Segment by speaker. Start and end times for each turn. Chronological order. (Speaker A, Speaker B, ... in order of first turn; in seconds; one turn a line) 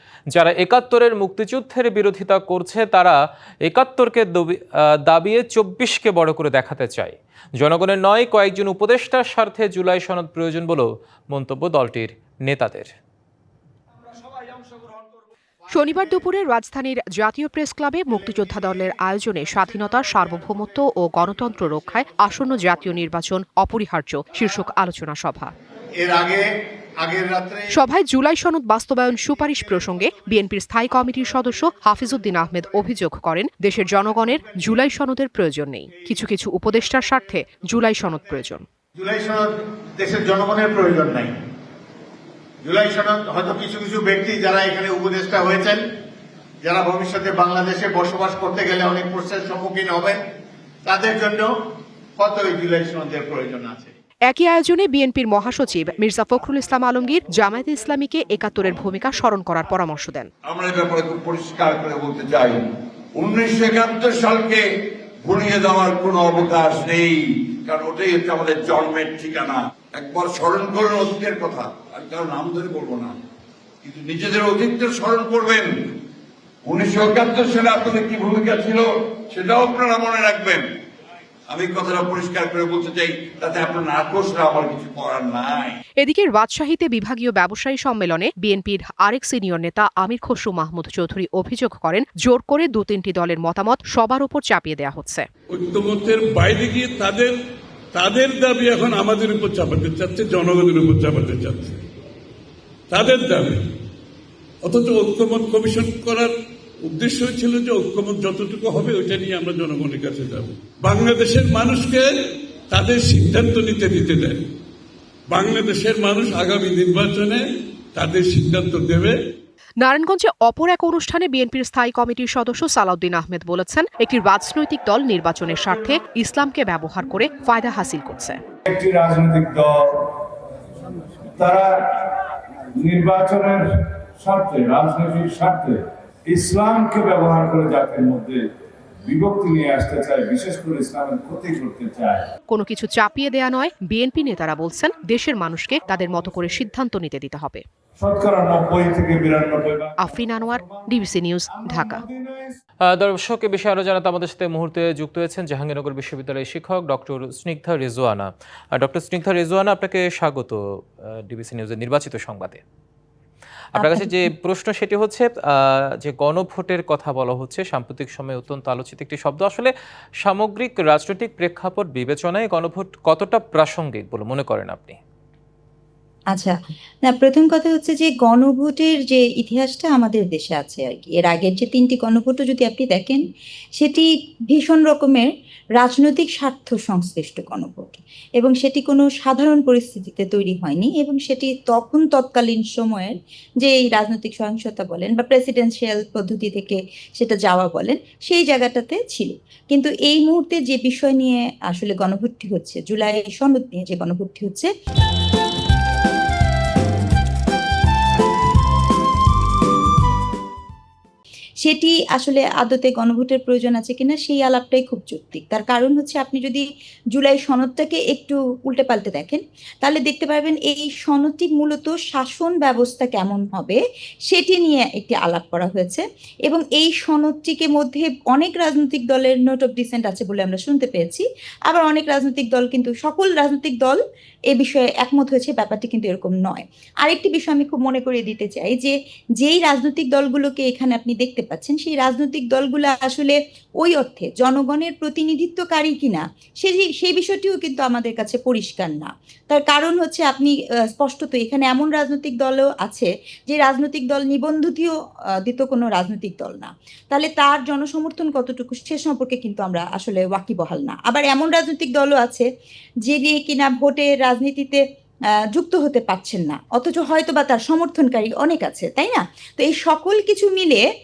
Speaker A: 0.3-12.9
Speaker B: 15.7-25.5
Speaker C: 26.0-26.4
Speaker C: 27.1-27.7
Speaker B: 27.7-38.6
Speaker C: 39.0-39.5
Speaker C: 40.0-41.3
Speaker C: 42.8-45.8
Speaker C: 46.7-50.1
Speaker C: 50.9-51.4
Speaker C: 52.3-53.8
Speaker B: 54.3-60.3
Speaker D: 60.5-73.2
Speaker D: 73.8-75.7
Speaker D: 76.7-80.6
Speaker D: 81.5-85.8
Speaker B: 86.0-95.3
Speaker E: 95.5-97.3
Speaker E: 97.9-101.8
Speaker E: 102.9-103.6
Speaker E: 104.6-106.3
Speaker E: 106.8-112.1
Speaker E: 112.7-114.4
Speaker E: 115.3-119.2
Speaker B: 119.8-128.4
Speaker F: 128.7-130.2
Speaker F: 131.3-132.1
Speaker F: 132.8-138.5
Speaker F: 139.1-142.3
Speaker B: 142.5-147.6
Speaker F: 148.0-151.0
Speaker B: 150.0-152.0
Speaker F: 151.5-152.6
Speaker A: 152.9-162.6
Speaker A: 163.8-169.7
Speaker G: 163.8-164.2
Speaker A: 170.2-175.0
Speaker G: 177.1-183.2
Speaker G: 183.8-204.7
Speaker G: 211.6-234.0
Speaker G: 234.5-254.9
Speaker G: 255.4-262.5
Speaker G: 263.0-264.8
Speaker G: 265.5-270.8